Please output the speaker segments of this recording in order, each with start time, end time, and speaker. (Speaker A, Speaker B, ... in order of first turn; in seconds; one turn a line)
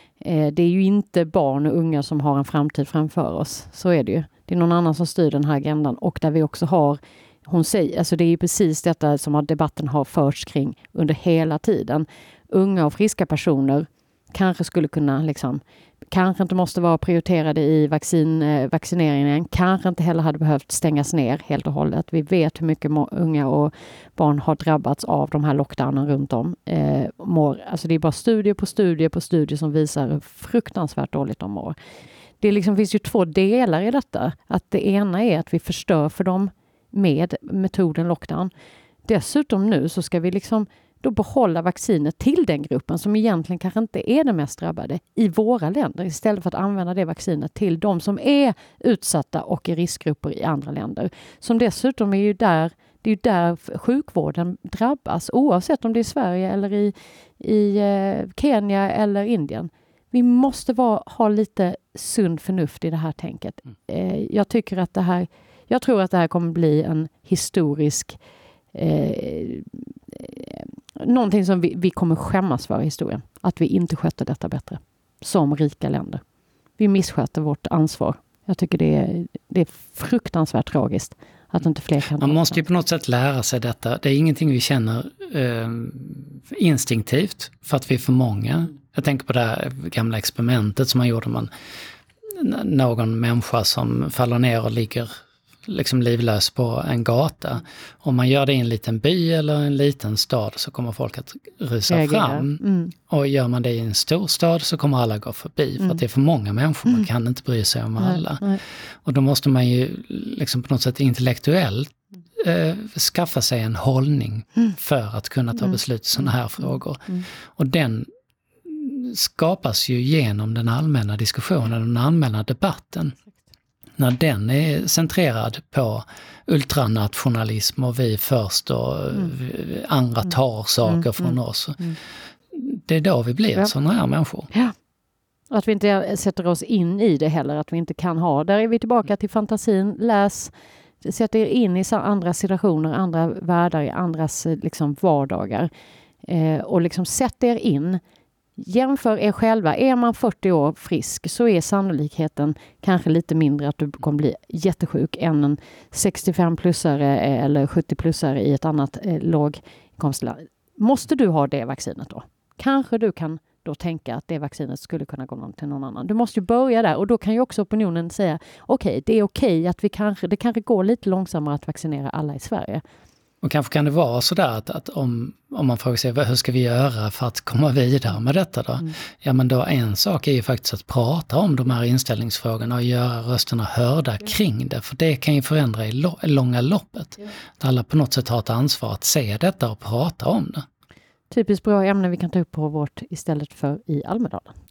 Speaker A: 0.2-31.8
Speaker A: 32.4-38.5
Speaker A: 39.1-68.2
Speaker A: 68.7-76.2
Speaker A: 76.8-82.6
Speaker B: 82.2-91.5
Speaker B: 92.3-95.1
Speaker B: 95.7-118.1
Speaker A: 101.9-102.9
Speaker A: 108.0-108.6
Speaker B: 118.6-123.2
Speaker B: 124.0-131.9
Speaker A: 130.9-131.9
Speaker B: 132.5-134.5
Speaker A: 135.5-145.7
Speaker A: 146.2-148.0
Speaker A: 148.6-172.8
Speaker B: 173.4-190.6
Speaker A: 191.3-194.5